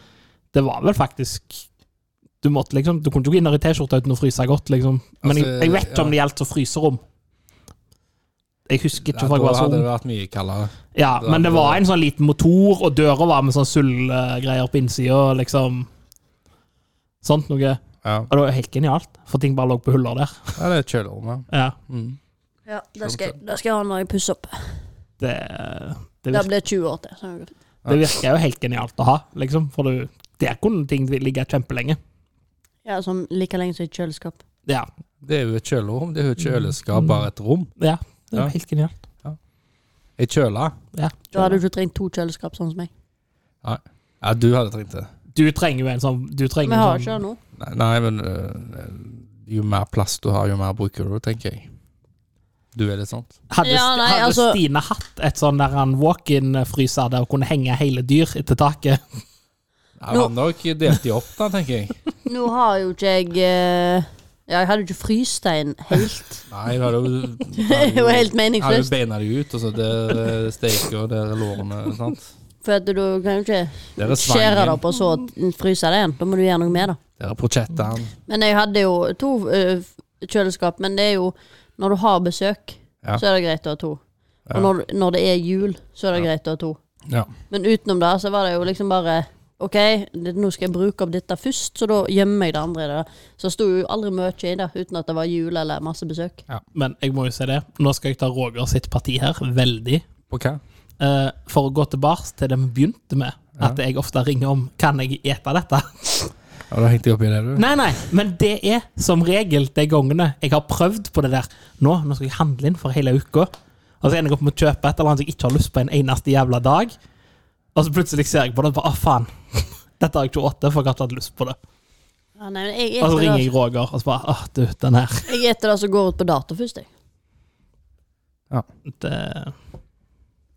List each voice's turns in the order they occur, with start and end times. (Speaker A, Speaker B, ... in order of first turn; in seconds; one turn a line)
Speaker A: 0.5-1.6
Speaker A: 2.4-7.0
Speaker B: 5.2-6.1
Speaker A: 8.7-9.9
Speaker B: 9.0-11.8
Speaker A: 10.9-15.9
Speaker A: 17.2-20.6
Speaker B: 18.0-18.3
Speaker B: 20.6-22.2
Speaker A: 21.5-21.8
Speaker C: 22.7-24.6
Speaker B: 23.0-23.3
Speaker A: 25.2-26.5
Speaker C: 26.3-27.5
Speaker A: 27.9-32.0
Speaker C: 32.8-34.4
Speaker B: 35.2-37.7
Speaker A: 36.9-37.2
Speaker A: 37.8-38.9
Speaker B: 40.2-40.8
Speaker A: 40.9-41.6
Speaker C: 41.3-42.9
Speaker B: 43.6-45.1
Speaker A: 45.3-47.2
Speaker C: 46.6-47.4
Speaker B: 47.6-51.7
Speaker B: 52.7-53.4
Speaker A: 53.5-59.2
Speaker C: 53.6-54.6
Speaker B: 60.0-62.0
Speaker C: 62.2-66.4
Speaker B: 66.5-72.3
Speaker C: 67.5-68.9
Speaker C: 72.6-77.0
Speaker B: 74.0-74.8
Speaker B: 77.2-78.1
Speaker C: 78.3-84.0
Speaker C: 84.5-86.8
Speaker C: 87.5-96.4
Speaker A: 96.7-100.0
Speaker B: 100.3-100.6
Speaker A: 101.0-106.3
Speaker B: 106.7-107.7
Speaker A: 107.5-113.5
Speaker A: 114.0-116.9
Speaker A: 117.7-121.6
Speaker C: 122.4-123.5
Speaker A: 123.0-125.3
Speaker C: 125.3-126.9
Speaker A: 128.9-129.5